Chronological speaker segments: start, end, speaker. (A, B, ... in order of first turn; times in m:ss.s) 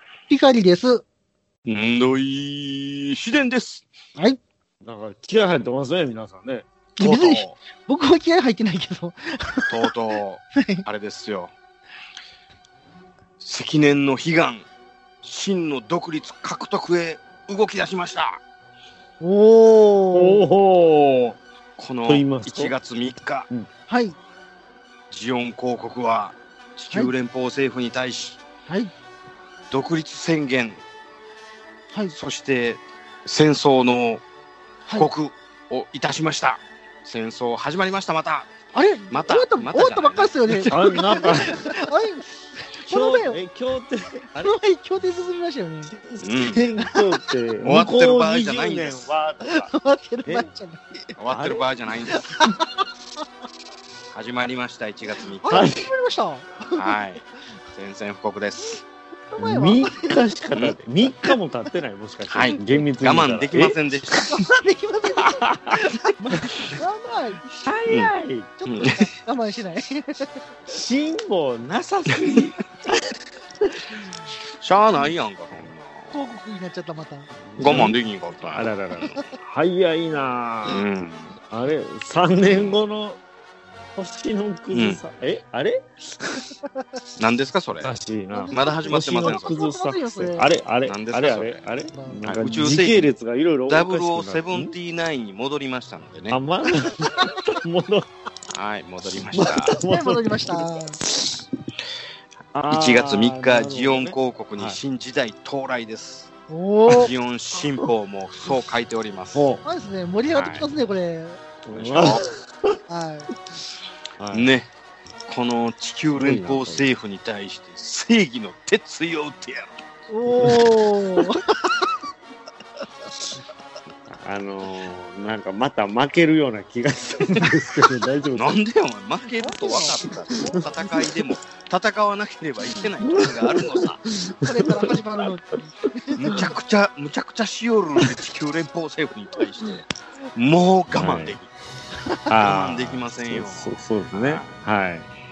0:00.3-0:01.0 A
0:01.6-0:03.9 B
0:04.8-0:06.7 C
0:07.0-0:07.6 B
0:07.0-0:09.9 A
0:09.7-0:11.5 B
0:10.5-0:10.8 A
0:13.4-0:14.6 B
0:15.2-0:18.4 B
0:19.2-0:20.4 A
0:20.2-0:21.4 C
0:21.8-0:23.5 B
0:22.1-0:22.7 C
0:23.9-0:24.2 A
0:25.1-0:28.4 B
0:28.7-0:28.9 A
0:29.7-0:30.8 B
0:32.1-0:34.2 B
0:34.9-0:38.5 B
0:38.7-0:43.4 A
0:39.1-0:40.8 B
0:40.6-0:41.6 C
0:42.8-0:44.5 C
0:44.4-0:45.9 A
0:46.0-0:49.7 C
0:46.2-0:46.9 B
0:47.6-0:49.2 B
0:49.4-0:50.8 A
0:51.2-0:52.4 B
0:51.3-0:51.7 C
0:52.1-0:52.8 A
0:54.1-0:55.7 B
0:55.4-0:57.0 A
0:55.5-0:55.9 C
0:56.8-0:58.8 B
0:59.3-1:00.2 A
0:59.4-1:04.2 C
1:00.5-1:00.8 B
1:02.3-1:04.3 B
1:04.3-1:07.7 A
1:05.4-1:05.8 C
1:07.6-1:08.5 C
1:07.9-1:08.1 B
1:08.6-1:10.4 A
1:08.6-1:09.1 B
1:10.7-1:13.2 C
1:14.6-1:16.2 B
1:16.1-1:17.3 A
1:17.5-1:18.0 C
1:17.6-1:19.2 B
1:18.5-1:20.8 C
1:20.6-1:21.4 B
1:21.5-1:23.2 C
1:22.4-1:22.8 B
1:24.0-1:26.5 C
1:24.7-1:25.0 B
1:27.2-1:27.9 B
1:27.8-1:34.8 C
1:28.3-1:30.5 A
1:28.5-1:29.6 B
1:30.8-1:31.6 B
1:31.9-1:32.3 A
1:32.3-1:33.1 B
1:33.7-1:36.4 B
1:36.3-1:38.1 C
1:38.5-1:39.8 B
1:39.3-1:41.4 C
1:39.8-1:41.0 A
1:42.5-1:44.8 C
1:42.7-1:46.3 B
1:46.5-1:47.1 A
1:46.9-1:49.5 B
1:49.3-1:49.6 C
1:49.6-1:51.4 A
1:50.3-1:50.7 B
1:51.7-1:52.8 C
1:51.7-1:52.2 B
1:52.9-1:53.3 A
1:54.2-1:54.5 C
1:54.3-1:54.7 B
1:55.3-1:59.7 B
1:56.1-1:56.9 C
2:00.1-2:01.8 A
2:00.4-2:00.6 C
2:04.1-2:08.6 C
2:08.4-2:14.0 B
2:09.4-2:10.7 A
2:13.0-2:15.0 C
2:14.4-2:16.5 A
2:16.2-2:21.5 B
2:16.2-2:16.5 C
2:20.9-2:21.4 C
2:22.3-2:25.1 C
2:22.4-2:24.6 B